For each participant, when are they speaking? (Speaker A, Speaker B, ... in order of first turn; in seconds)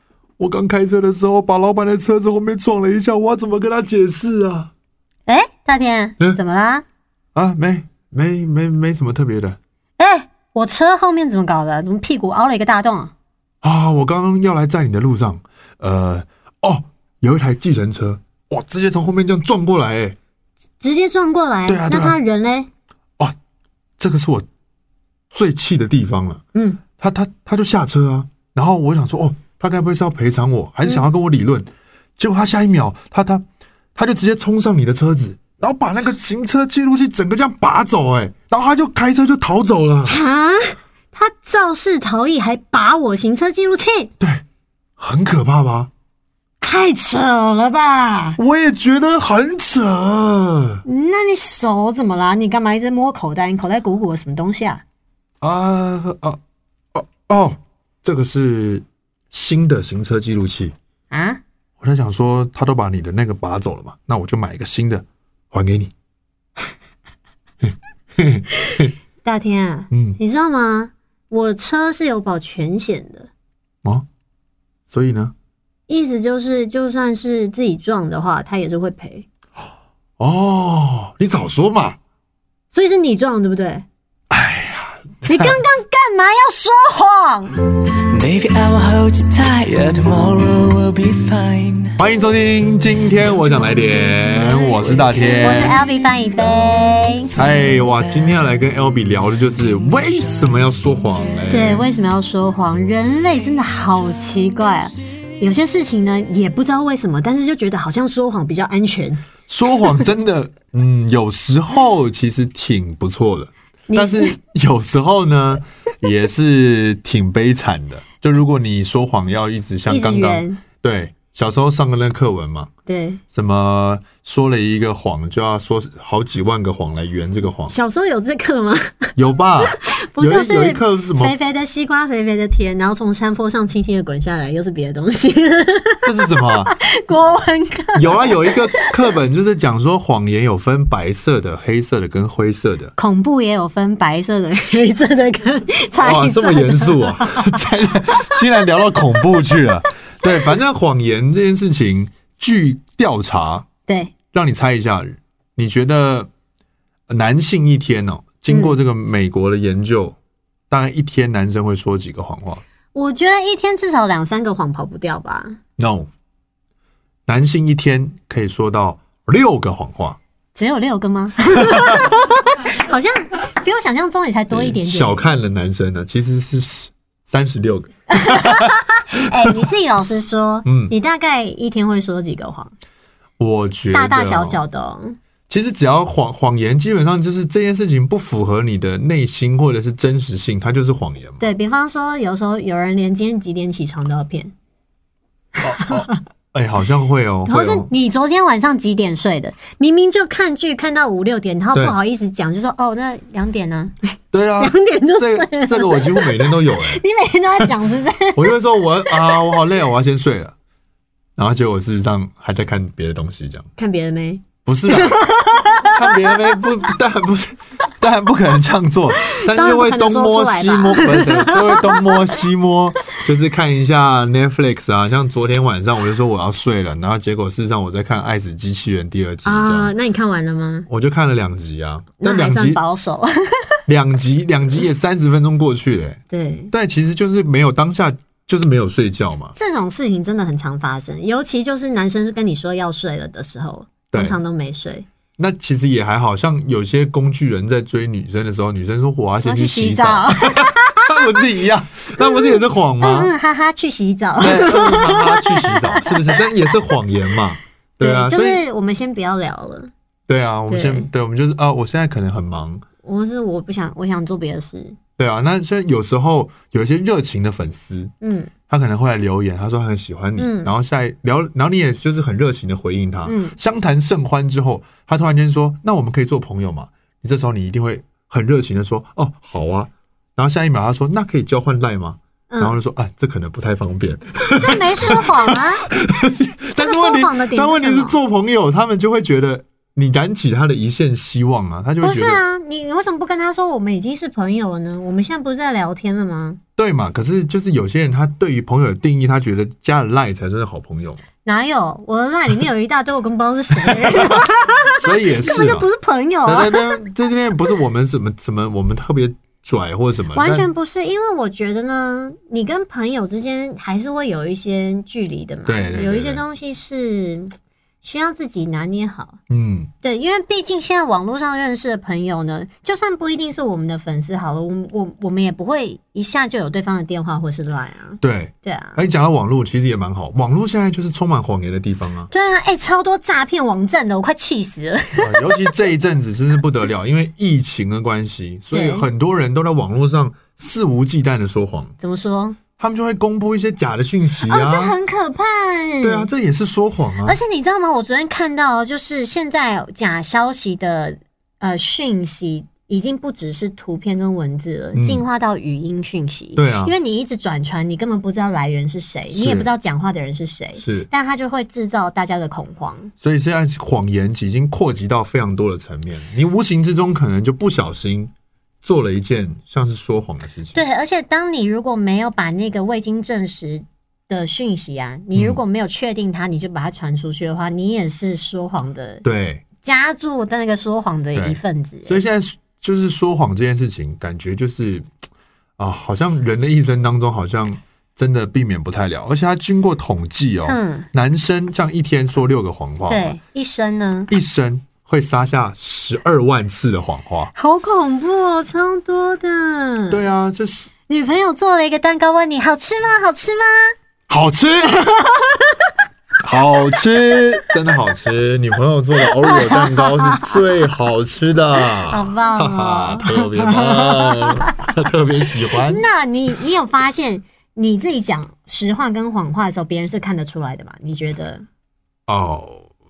Speaker A: 0.4-4.7, 7.3-9.6, 13.6-20.2, 21.6-22.2, 24.0-24.4, 25.3-26.4, 27.0-40.1, 45.0-45.9, 48.4-50.8, 55.4-56.4, 56.9-60.7, 61.8-65.9, 67.6-68.9, 69.9-70.2, 74.9-75.3, 80.2-82.0, 84.3-85.6, 92.0-95.8, 97.3-101.8, 109.5-122.7, 123.3-127.7, 129.2-131.3, 136.0-136.7, 137.9-142.9, 146.0-153.7, 154.3-156.3, 157.1-160.2, 160.7-162.6, 165.8-166.1, 167.3-170.2, 171.6-172.0, 174.5-178.7, 180.6-180.9, 183.4-184.6, 185.5-191.5, 195.6-197.9, 204.3-207.0, 208.3-210.5, 211.4-213.7, 214.6-215.3, 215.8-229.9, 230.9-232.8, 233.9-236.2, 236.7-239.5, 244.1-244.4, 245.4-253.3, 254.4-258.6, 260.3-262.8, 265.2-268.1, 268.7-292.4, 296.8-301.2, 303.8-305.9, 306.4-310.7, 315.6-316.4, 319.5-319.9, 328.2-332.3, 335.2-341.9, 342.8-344.9, 346.0-347.4, 354.9-355.2, 356.5-356.9, 359.3-359.7, 360.8-361.1, 363.2-368.3, 368.8-370.8, 379.2-379.6, 381.3-385.1, 385.8-393.4, 394.3-397.5, 400.1-400.9, 404.3-405.3, 406.4-416.0, 422.3-422.9
Speaker B: 5.3-6.8, 10.0-13.1, 20.8-22.7, 26.5-26.8, 40.0-44.1, 46.6-48.4, 50.9-54.8, 61.1-61.4, 68.7-73.3, 75.9-79.2, 82.7-83.8, 85.2-87.6, 95.4-97.3, 101.5-109.2, 113.9-114.4, 119.9-120.6, 122.9-123.2, 127.7-138.9, 143.0-147.6, 153.9-154.1, 158.5-158.8, 162.9-165.6, 170.5-175.3, 178.1-182.7, 183.9-185.2, 191.4-194.5, 195.8-196.1, 197.4-203.9, 204.6-209.5, 213.8-216.5, 219.2-222.4, 229.4-230.9, 232.2-233.8, 236.3-236.7, 239.5-245.1, 249.4-251.3, 252.2-256.4, 258.0-259.9, 260.7-261.1, 263.0-265.0, 268.2-268.5, 270.4-270.7, 273.2-273.6, 282.5-282.8, 284.5-285.9, 286.8-288.2, 292.0-296.6, 301.4-307.0, 310.3-319.4, 320.0-329.0, 332.3-335.7, 338.7-339.1, 342.0-342.6, 344.5-346.3, 347.2-363.1, 370.7-379.2, 379.8-382.2, 390.6-391.1, 393.1-394.3, 397.5-400.2, 401.1-403.9, 409.4-410.5, 412.0-414.9, 415.8-421.6
Speaker C: 87.9-92.0, 94.5-95.6, 97.7-98.1